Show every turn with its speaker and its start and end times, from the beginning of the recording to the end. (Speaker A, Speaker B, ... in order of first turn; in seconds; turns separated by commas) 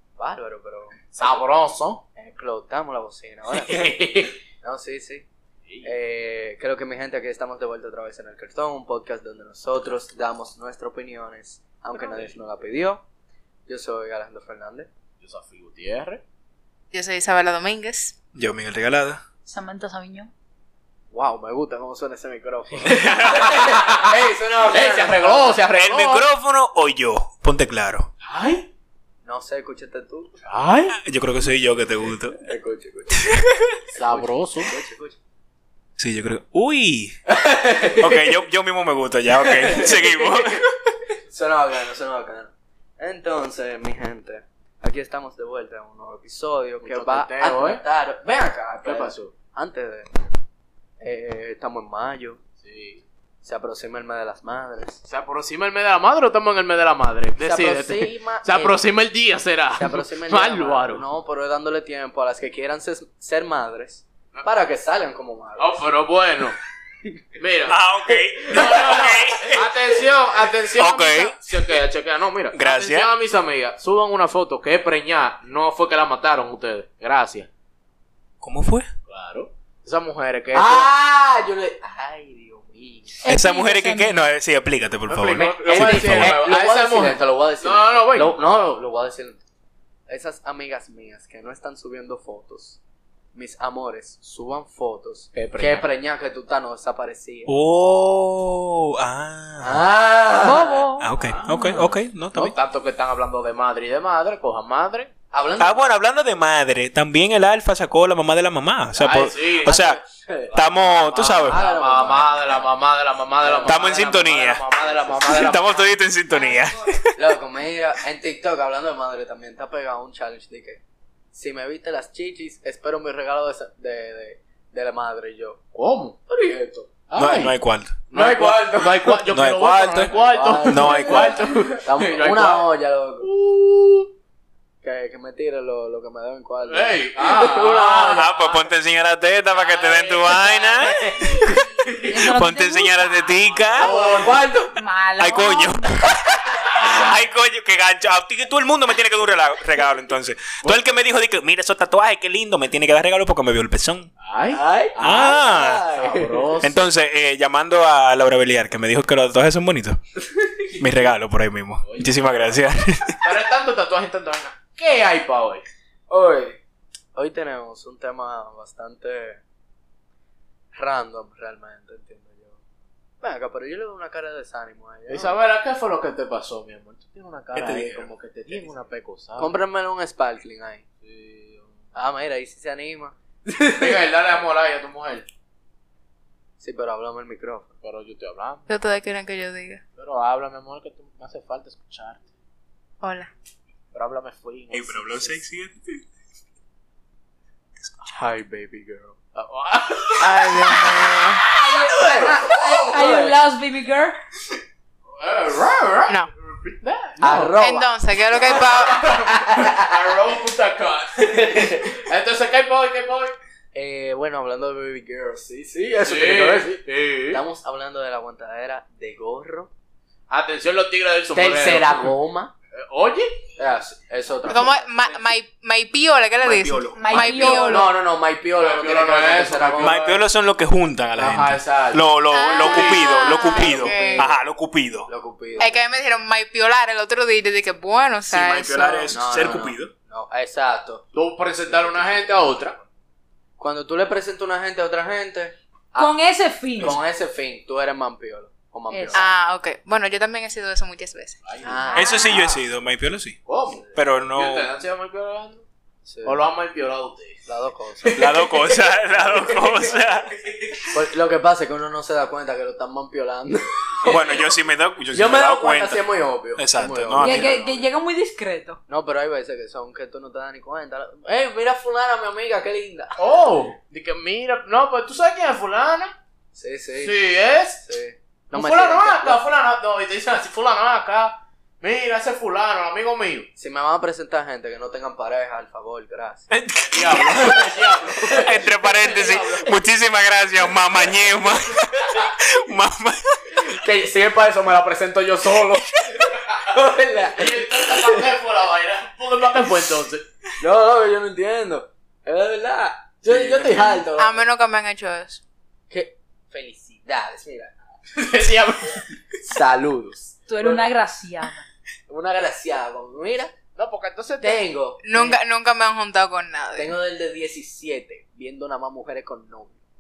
Speaker A: 0.2-1.1, Speaker B: 1.1-2.0, Speaker A: 2.1-4.0, Speaker B: 3.5-4.3, Speaker A: 4.6-5.3, Speaker A: 5.8-13.0, Speaker A: 13.7-14.9, Speaker B: 15.2-16.2, Speaker C: 16.9-18.1, Speaker D: 18.3-19.2, Speaker E: 19.4-20.3, Speaker A: 21.1-25.6, Speaker D: 22.9-23.7, Speaker B: 22.9-26.2, Speaker D: 25.7-28.1, Speaker B: 28.2-28.7, Speaker A: 29.2-30.3, Speaker B: 30.4-31.0, Speaker D: 30.9-32.4, Speaker A: 32.3-33.4, Speaker D: 33.3-33.7, Speaker A: 33.9-35.2, Speaker B: 34.0-34.7, Speaker D: 36.0-37.2, Speaker A: 37.3-38.2, Speaker D: 38.0-40.9, Speaker A: 39.4-40.5, Speaker A: 41.3-50.1, Speaker B: 46.8-47.8, Speaker B: 48.8-49.3, Speaker A: 51.0-52.4, Speaker B: 52.6-53.0, Speaker A: 53.4-55.0, Speaker B: 55.1-61.0, Speaker A: 57.4-58.8, Speaker A: 59.8-65.8, Speaker B: 65.6-66.6, Speaker B: 67.4-67.8, Speaker D: 67.7-69.7, Speaker B: 68.4-77.5, Speaker D: 70.8-71.4, Speaker D: 72.5-73.1, Speaker D: 78.4-78.9, Speaker B: 79.1-80.9, Speaker A: 80.5-83.2, Speaker E: 83.2-84.2, Speaker D: 83.3-86.4, Speaker B: 85.1-88.4, Speaker A: 85.7-89.4, Speaker A: 90.1-92.8, Speaker A: 93.3-97.5, Speaker B: 95.3-95.8, Speaker D: 97.5-99.8, Speaker A: 99.6-100.9, Speaker E: 100.4-101.7, Speaker D: 101.0-102.5, Speaker B: 101.2-105.1, Speaker A: 105.3-105.9, Speaker D: 105.6-110.0, Speaker B: 109.0-109.8, Speaker A: 109.6-112.6, Speaker D: 110.5-111.6, Speaker B: 110.5-115.9, Speaker A: 113.4-113.8, Speaker D: 113.6-114.6, Speaker A: 114.8-115.5, Speaker D: 115.2-117.2, Speaker E: 116.3-116.9, Speaker A: 117.1-120.8, Speaker A: 121.3-125.6, Speaker B: 125.7-127.5, Speaker A: 126.3-126.8, Speaker D: 127.1-128.0, Speaker B: 128.1-132.7, Speaker A: 128.1-129.1, Speaker D: 129.2-131.5, Speaker A: 130.1-133.3, Speaker B: 133.2-134.1, Speaker A: 134.8-138.3, Speaker B: 136.7-138.7, Speaker D: 138.1-143.9, Speaker B: 139.5-142.1, Speaker E: 140.9-143.9, Speaker B: 143.5-144.4, Speaker A: 143.8-144.7, Speaker E: 144.8-145.9, Speaker D: 145.2-154.1, Speaker B: 146.6-147.1, Speaker B: 150.6-150.9, Speaker B: 154.2-154.6, Speaker A: 154.5-156.5, Speaker D: 155.0-155.8, Speaker B: 156.0-156.8, Speaker D: 156.6-160.0, Speaker D: 160.8-163.3, Speaker B: 161.8-162.6, Speaker B: 163.2-165.6, Speaker A: 166.1-166.6, Speaker A: 167.1-169.4, Speaker A: 170.7-172.6, Speaker A: 173.2-175.4, Speaker B: 175.1-179.5, Speaker D: 177.5-178.1, Speaker A: 179.4-180.8, Speaker B: 181.0-181.7, Speaker A: 181.9-183.9, Speaker B: 183.7-185.3, Speaker A: 186.6-187.7, Speaker B: 187.8-188.7, Speaker C: 188.7-189.8, Speaker B: 190.0-192.2, Speaker C: 193.0-193.3, Speaker B: 193.9-195.4, Speaker D: 194.7-196.0, Speaker B: 198.1-201.4, Speaker C: 200.2-201.4, Speaker E: 201.4-204.2, Speaker A: 201.9-203.3, Speaker B: 202.0-203.2, Speaker B: 205.2-207.5, Speaker A: 207.2-207.9, Speaker C: 207.6-209.1, Speaker B: 208.3-213.3, Speaker A: 208.9-210.0, Speaker A: 211.4-211.9, Speaker A: 213.7-219.7, Speaker B: 216.0-217.4, Speaker B: 220.3-222.1, Speaker A: 221.3-222.5, Speaker B: 222.7-223.4, Speaker A: 223.6-225.3, Speaker C: 224.5-227.9, Speaker D: 226.4-227.2, Speaker E: 226.9-227.9, Speaker A: 227.1-230.0, Speaker B: 228.5-230.2, Speaker D: 229.8-235.1, Speaker B: 231.2-233.3, Speaker C: 232.3-234.3, Speaker A: 233.3-234.3, Speaker A: 235.1-235.8, Speaker C: 235.6-239.1, Speaker D: 238.3-239.9, Speaker A: 239.1-241.0, Speaker B: 241.1-242.8, Speaker A: 241.7-242.7, Speaker A: 243.6-246.2, Speaker E: 246.0-247.0, Speaker A: 246.7-249.3, Speaker E: 248.9-249.3, Speaker C: 249.1-251.4, Speaker B: 251.4-252.5, Speaker A: 251.6-252.3, Speaker E: 251.9-252.5, Speaker D: 251.9-253.4, Speaker C: 252.0-252.3, Speaker B: 253.4-255.6, Speaker D: 253.9-254.7, Speaker A: 256.1-256.4, Speaker B: 256.2-257.4, Speaker A: 257.4-258.6, Speaker D: 258.1-260.3, Speaker A: 259.3-259.7, Speaker B: 259.3-260.5, Speaker A: 260.9-264.4, Speaker D: 264.1-266.0, Speaker A: 265.1-267.8, Speaker D: 266.6-267.5, Speaker E: 267.2-268.8, Speaker A: 268.9-273.2, Speaker B: 273.2-276.1, Speaker A: 276.5-277.2, Speaker B: 277.0-277.8, Speaker A: 277.8-279.4, Speaker B: 278.5-283.5, Speaker A: 283.6-286.5, Speaker D: 286.5-293.7, Speaker B: 286.8-289.7, Speaker A: 288.1-288.4, Speaker B: 293.7-296.6, Speaker A: 294.2-294.8, Speaker A: 296.5-298.3, Speaker B: 297.3-300.2, Speaker A: 300.6-304.4, Speaker B: 303.2-303.9, Speaker C: 304.1-305.4, Speaker A: 305.9-307.7, Speaker B: 308.1-309.1, Speaker A: 309.4-310.8, Speaker E: 310.5-311.6, Speaker A: 312.1-313.5, Speaker B: 313.7-314.6, Speaker A: 314.4-315.4, Speaker C: 315.0-316.9, Speaker A: 316.7-319.8